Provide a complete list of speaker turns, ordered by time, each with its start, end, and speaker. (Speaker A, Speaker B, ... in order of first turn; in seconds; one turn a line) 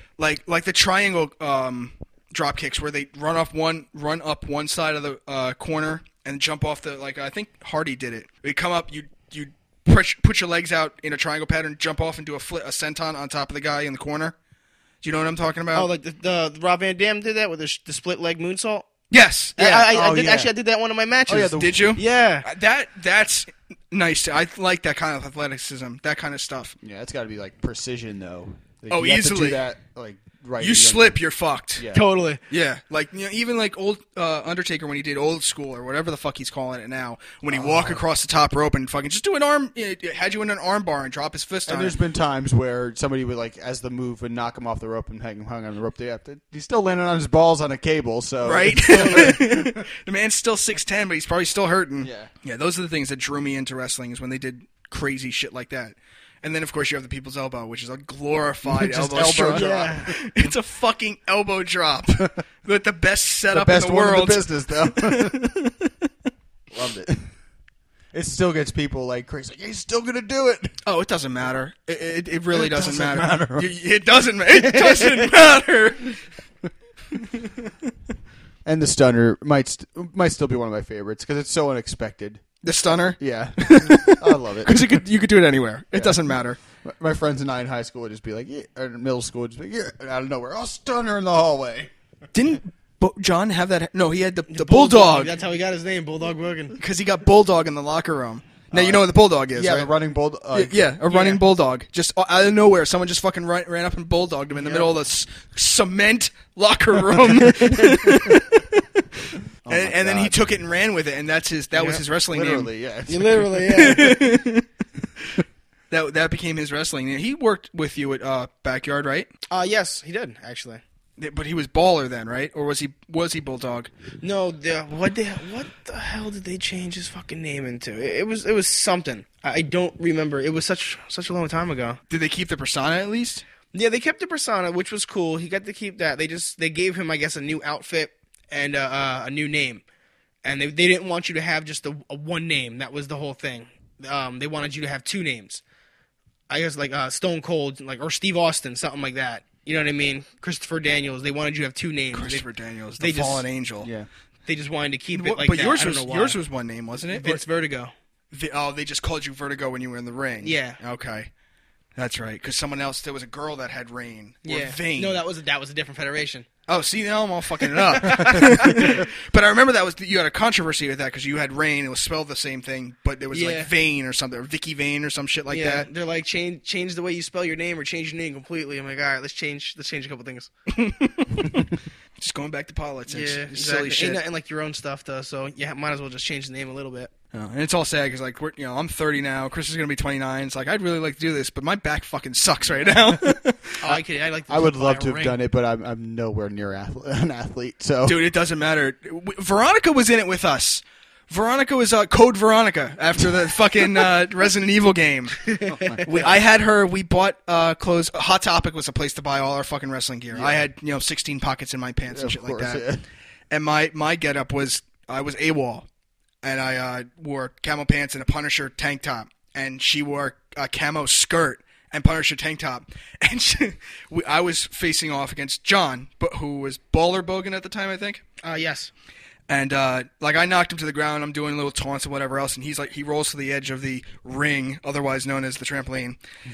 Speaker A: 0.2-14.3
Speaker A: 15.0-15.9
Speaker B: 15.7-18.9
Speaker A: 19.1-19.9
Speaker B: 19.6-22.4
Speaker C: 19.8-20.5
Speaker C: 21.3-22.0
Speaker A: 21.4-26.7
Speaker C: 26.8-31.2
Speaker A: 28.9-29.6
Speaker A: 30.6-31.9
Speaker C: 31.8-32.0
Speaker B: 31.9-32.4
Speaker A: 32.5-42.0
Speaker C: 37.5-38.0
Speaker C: 41.7-49.8
Speaker A: 48.4-65.9
Speaker B: 48.9-49.4
Speaker C: 52.0-52.3
Speaker C: 58.6-60.1
Speaker B: 59.5-60.1
Speaker C: 63.5-65.4
Speaker C: 66.7-67.3
Speaker C: 68.1-70.7
Speaker A: 70.8-76.2
Speaker C: 72.5-73.7
Speaker B: 74.5-75.3
Speaker C: 78.6-82.4
Speaker A: 82.6-86.6
Speaker C: 83.2-85.0
Speaker C: 85.9-86.2
Speaker C: 86.8-91.9
Speaker A: 92.3-95.3
Speaker B: 94.5-96.8
Speaker A: 96.8-99.9
Speaker C: 98.7-100.8
Speaker A: 100.5-112.7
Speaker B: 101.1-101.4
Speaker B: 104.5-104.9
Speaker C: 107.8-108.4
Speaker C: 109.6-110.6
Speaker B: 111.7-112.0
Speaker C: 112.3-113.7
Speaker B: 113.1-114.3
Speaker A: 113.6-114.6
Speaker A: 115.9-119.3
Speaker B: 119.5-120.8
Speaker A: 121.2-123.9
Speaker B: 124.2-132.0
Speaker A: 132.1-133.4
Speaker B: 133.7-139.8
Speaker B: 140.4-145.6
Speaker B: 146.5-152.4
Speaker A: 152.1-153.9
Speaker B: 153.0-153.4
Speaker C: 153.8-154.1
Speaker B: 154.4-156.4
Speaker A: 155.1-157.4
Speaker B: 157.1-157.9
Speaker A: 158.3-161.3
Speaker B: 160.4-160.8
Speaker A: 161.9-165.2
Speaker B: 164.4-166.5
Speaker A: 166.7-175.9
Speaker B: 167.7-169.0
Speaker B: 173.3-173.7
Speaker B: 175.5-180.5
Speaker A: 180.7-184.2
Speaker B: 183.1-187.1
Speaker A: 187.3-193.8
Speaker B: 193.8-195.4
Speaker C: 193.8-198.2
Speaker A: 198.0-205.5
Speaker B: 205.5-206.3
Speaker C: 205.7-206.2
Speaker A: 206.0-212.8
Speaker C: 210.3-210.7
Speaker C: 212.1-213.0
Speaker A: 213.5-215.8
Speaker A: 216.4-228.2
Speaker B: 228.4-228.9
Speaker A: 229.5-236.2